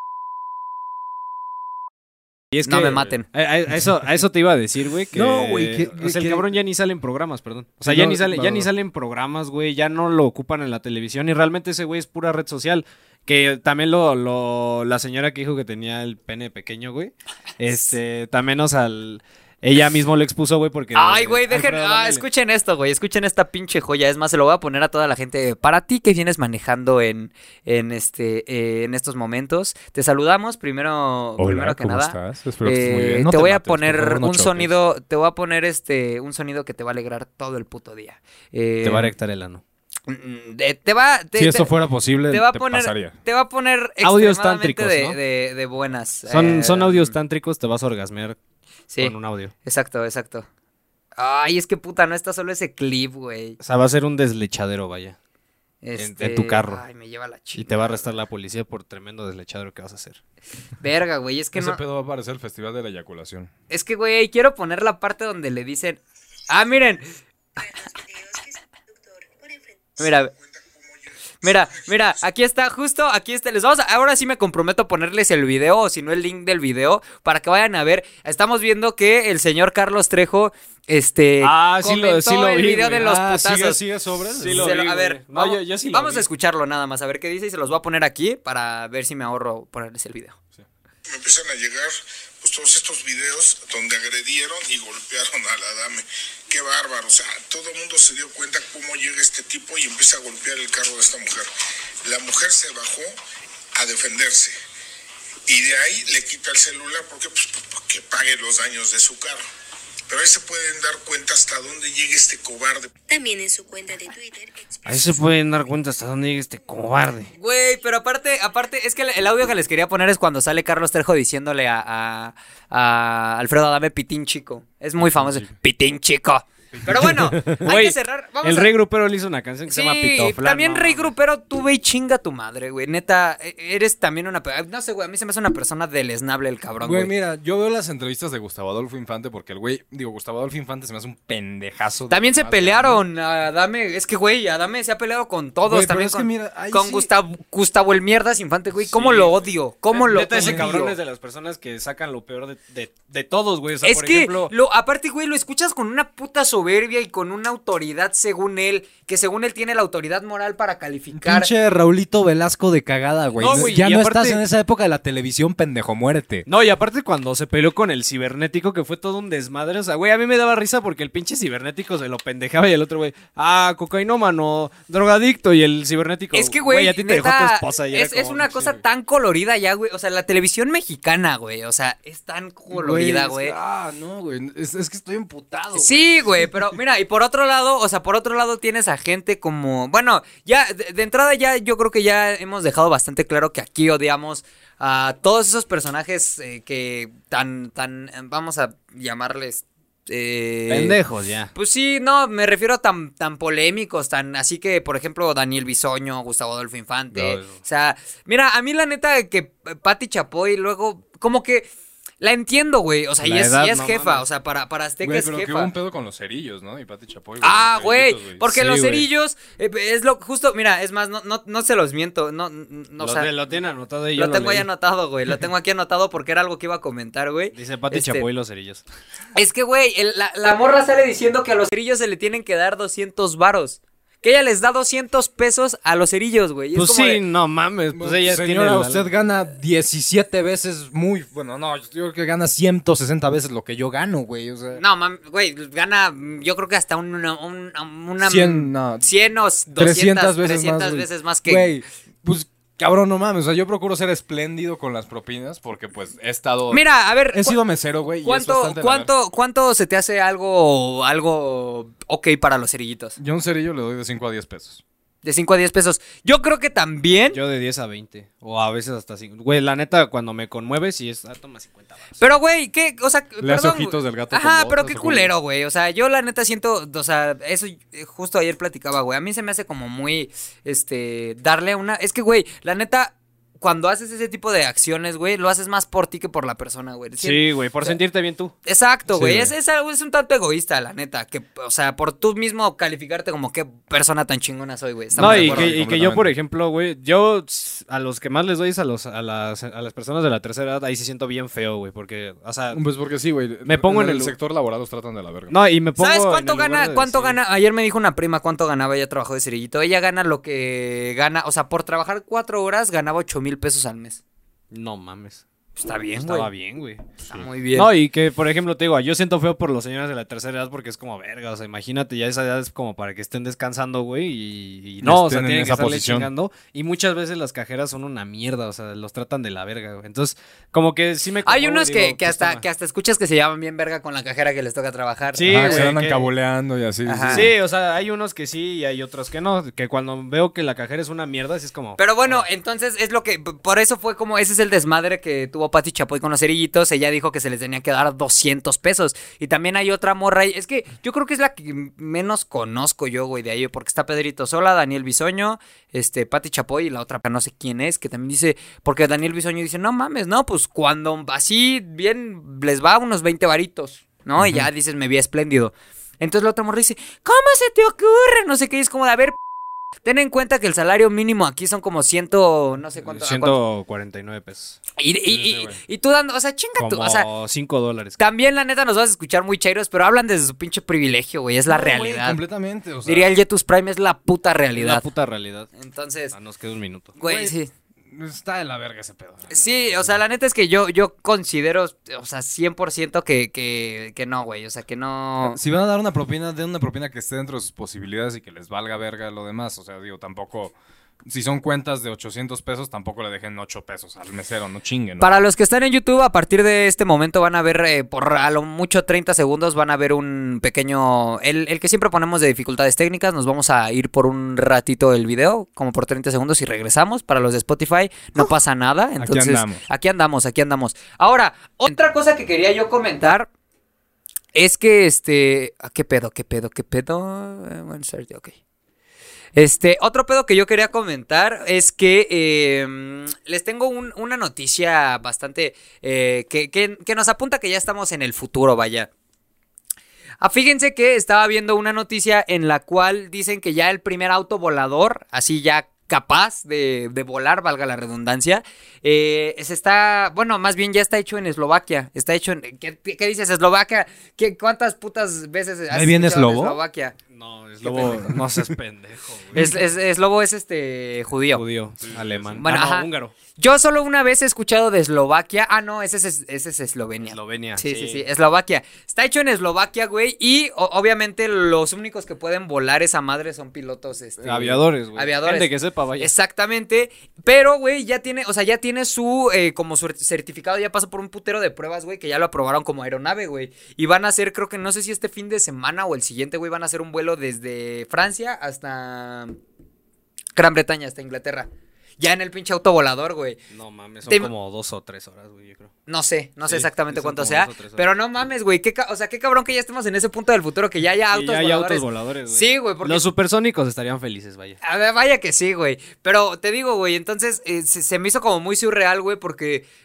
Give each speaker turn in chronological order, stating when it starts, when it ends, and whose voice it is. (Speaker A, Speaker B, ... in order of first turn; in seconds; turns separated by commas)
Speaker A: 2.5-22.2, Speaker B: 2.6-3.2, Speaker C: 5.1-6.5, Speaker C: 7.8-8.7, Speaker B: 20.9-39.1, Speaker C: 31.4-34.7, Speaker A: 38.8-39.6, Speaker B: 40.1-41.7, Speaker C: 41.3-43.1, Speaker B: 42.3-47.1, Speaker A: 44.0-45.2, Speaker A: 46.3-48.4, Speaker A: 49.0-49.5, Speaker B: 49.6-50.5, Speaker B: 51.1-53.6, Speaker A: 53.6-55.1, Speaker B: 55.8-58.1, Speaker A: 56.0-56.8, Speaker A: 57.5-60.2, Speaker B: 60.8-61.8, Speaker C: 61.5-63.5, Speaker B: 63.7-67.0, Speaker D: 67.6-70.1, Speaker B: 70.0-70.3, Speaker E: 70.3-72.1, Speaker B: 71.4-83.8, Speaker A: 81.4-83.2, Speaker C: 83.0-84.7, Speaker A: 84.3-86.2, Speaker B: 84.5-90.4, Speaker E: 91.1-101.5, Speaker E: 102.0-103.2, Speaker E: 103.8-104.5, Speaker E: 105.5-109.4, Speaker E: 110.1-112.9, Speaker D: 113.1-115.2, Speaker A: 114.8-117.3, Speaker B: 117.3-128.7, Speaker C: 125.0-125.5, Speaker C: 126.8-127.6, Speaker A: 127.0-131.1, Speaker B: 129.7-137.1, Speaker C: 136.8-143.0, Speaker B: 142.1-150.9, Speaker C: 145.7-147.1, Speaker A: 148.8-154.5, Speaker C: 150.3-150.7, Speaker B: 153.8-161.5, Speaker C: 161.1-166.4, Speaker A: 163.4-164.4, Speaker A: 166.5-178.8, Speaker B: 176.3-183.5, Speaker C: 182.7-186.8, Speaker B: 185.7-201.0, Speaker A: 200.7-201.5, Speaker B: 201.5-211.7, Speaker A: 207.1-207.6, Speaker B: 212.2-215.7, Speaker A: 213.2-214.2, Speaker C: 215.0-218.4, Speaker B: 217.4-223.3, Speaker A: 218.5-219.1, Speaker A: 223.0-224.7, Speaker B: 224.1-228.2, Speaker A: 227.5-228.8, Speaker B: 229.3-237.2, Speaker A: 236.7-239.0, Speaker C: 237.9-244.8, Speaker B: 244.8-251.7, Speaker C: 248.2-249.1, Speaker C: 249.8-259.1, Speaker B: 256.7-257.6, Speaker B: 258.2-263.2, Speaker C: 263.2-264.8, Speaker B: 265.2-267.4, Speaker A: 267.3-272.2, Speaker B: 272.2-288.0, Speaker C: 273.4-275.3, Speaker A: 287.2-288.5, Speaker B: 288.6-295.8, Speaker C: 289.1-289.5, Speaker C: 295.1-296.3, Speaker A: 295.2-302.8, Speaker C: 302.7-305.5, Speaker A: 303.6-304.3, Speaker A: 305.5-307.4, Speaker B: 306.0-314.2, Speaker A: 314.7-315.4, Speaker B: 315.8-316.5, Speaker A: 316.2-332.6, Speaker B: 317.3-317.9, Speaker C: 325.0-326.3, Speaker B: 331.4-335.9, Speaker A: 335.4-336.3, Speaker C: 335.5-337.5, Speaker B: 337.1-337.5, Speaker A: 337.3-342.4, Speaker B: 342.0-369.4, Speaker C: 364.4-364.7, Speaker B: 370.0-373.6, Speaker A: 373.0-374.8, Speaker B: 375.0-377.3, Speaker C: 375.3-375.8, Speaker A: 376.8-378.2, Speaker B: 378.2-382.4, Speaker C: 381.7-383.3, Speaker B: 383.0-385.0, Speaker A: 384.8-385.7, Speaker B: 385.8-386.3, Speaker A: 386.3-387.1, Speaker B: 387.2-387.7, Speaker C: 387.2-387.5, Speaker C: 388.1-390.1, Speaker B: 389.5-395.6, Speaker C: 395.4-400.7, Speaker C: 401.2-405.3, Speaker B: 405.2-423.5, Speaker C: 419.2-419.8, Speaker B: 424.5-428.5, Speaker B: 429.6-439.1, Speaker B: 440.4-457.1, Speaker C: 455.9-456.8, Speaker A: 457.3-459.7, Speaker B: 457.8-458.4, Speaker C: 459.5-459.8, Speaker B: 459.5-461.6, Speaker A: 461.5-463.3, Speaker C: 462.0-462.6, Speaker B: 462.6-489.6, Speaker A: 467.2-468.2, Speaker A: 474.4-476.3, Speaker B: 490.6-491.7, Speaker B: 492.2-493.6, Speaker A: 493.7-495.9, Speaker B: 494.3-494.5, Speaker B: 496.1-503.2, Speaker A: 496.6-498.0, Speaker A: 501.3-504.8, Speaker B: 504.8-509.9